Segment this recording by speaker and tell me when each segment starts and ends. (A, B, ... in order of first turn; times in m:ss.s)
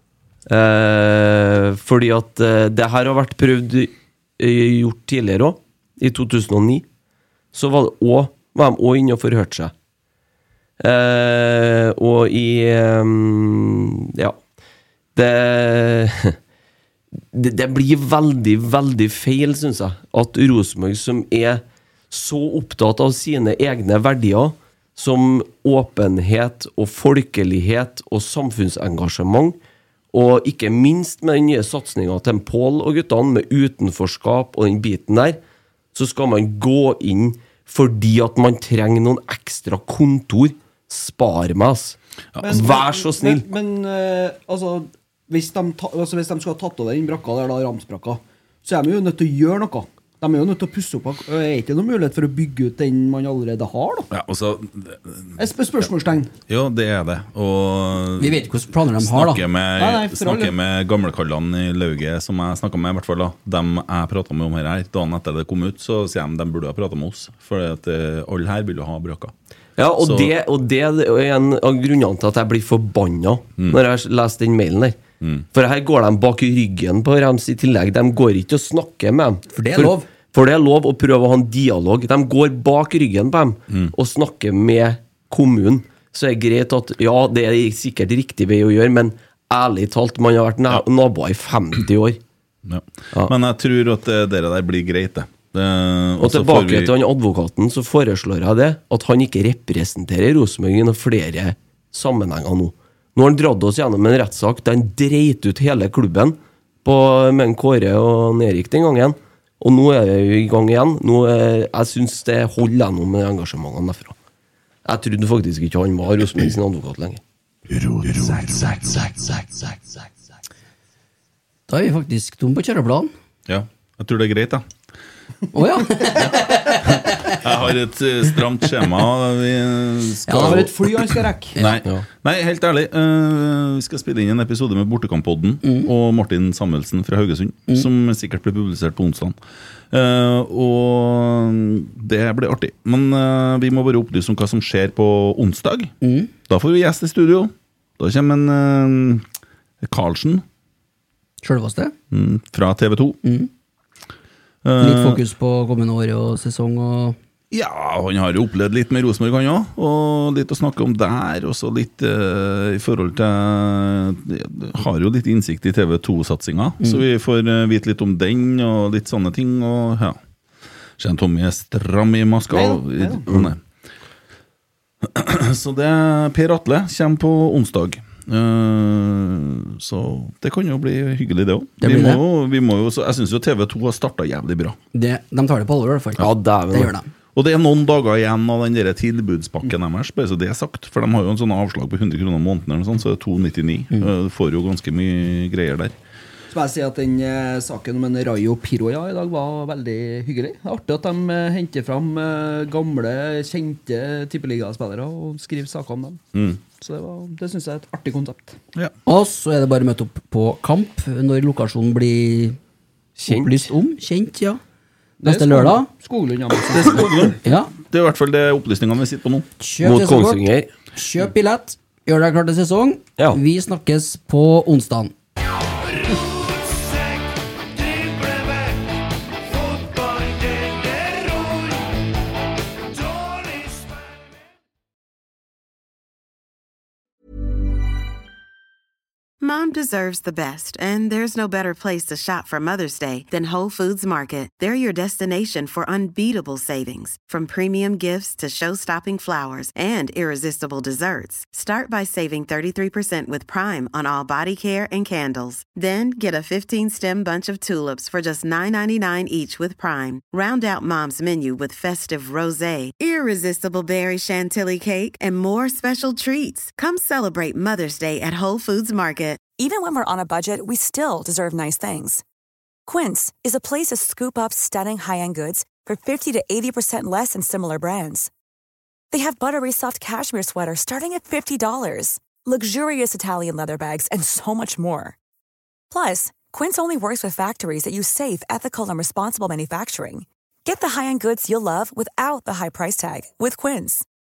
0:00.5-0:06.8 A
0:07.5-0:09.7 A
0:10.8-0:14.4 A
0:15.1-0:16.4 A
0:17.3-0:29.6 A
0:30.1-0:35.4 A
0:35.9-0:43.4 A
0:42.4-0:54.1 B
0:54.1-0:55.3 C
0:55.4-0:56.3 B
0:56.5-0:58.4 C
0:58.2-0:59.4 D
0:59.0-1:09.3 C
0:59.8-1:00.6 B
1:09.8-1:32.2 A
1:10.0-1:10.3 C
1:15.2-1:15.4 C
1:19.5-1:20.1 D
1:32.6-1:36.9 C
1:36.2-1:54.2 A
1:54.8-1:57.2 A
2:01.7-2:03.1 D
2:03.5-2:04.6 C
2:05.5-2:07.4 D
2:06.1-2:19.4 C
2:10.3-2:10.6 D
2:10.3-2:11.6 B
2:15.6-2:15.9 D
2:19.9-2:25.9 C
2:26.0-2:26.3 D
2:26.5-2:29.3 C
2:29.8-2:30.4 C
2:31.4-2:31.9 D
2:32.1-2:33.2 C
2:33.2-2:33.5 D
2:34.6-2:35.2 C
2:34.8-2:37.2 D
2:37.5-2:50.2 C
2:51.0-2:53.6 C
2:52.5-2:53.3 B
2:55.0-3:04.8 C
3:01.8-3:02.2 D
3:04.9-3:07.1 D
3:06.2-3:06.9 A
3:07.4-3:15.9 C
3:16.5-3:26.2 B
3:26.3-3:26.6 C
3:26.7-3:28.6 B
3:29.1-3:32.6 D
3:33.2-3:33.7 A
3:33.3-3:34.6 D
3:35.2-3:37.4 B
3:35.2-3:35.9 D
3:36.9-3:39.5 C
3:37.0-3:37.2 A
3:37.4-3:37.7 D
3:39.6-3:40.4 D
3:39.8-3:40.7 A
3:41.0-3:45.1 D
3:59.4-4:29.5 E
4:29.6-4:32.2 F
4:32.9-4:38.3 F
4:39.1-4:45.2 F
4:45.9-4:54.0 F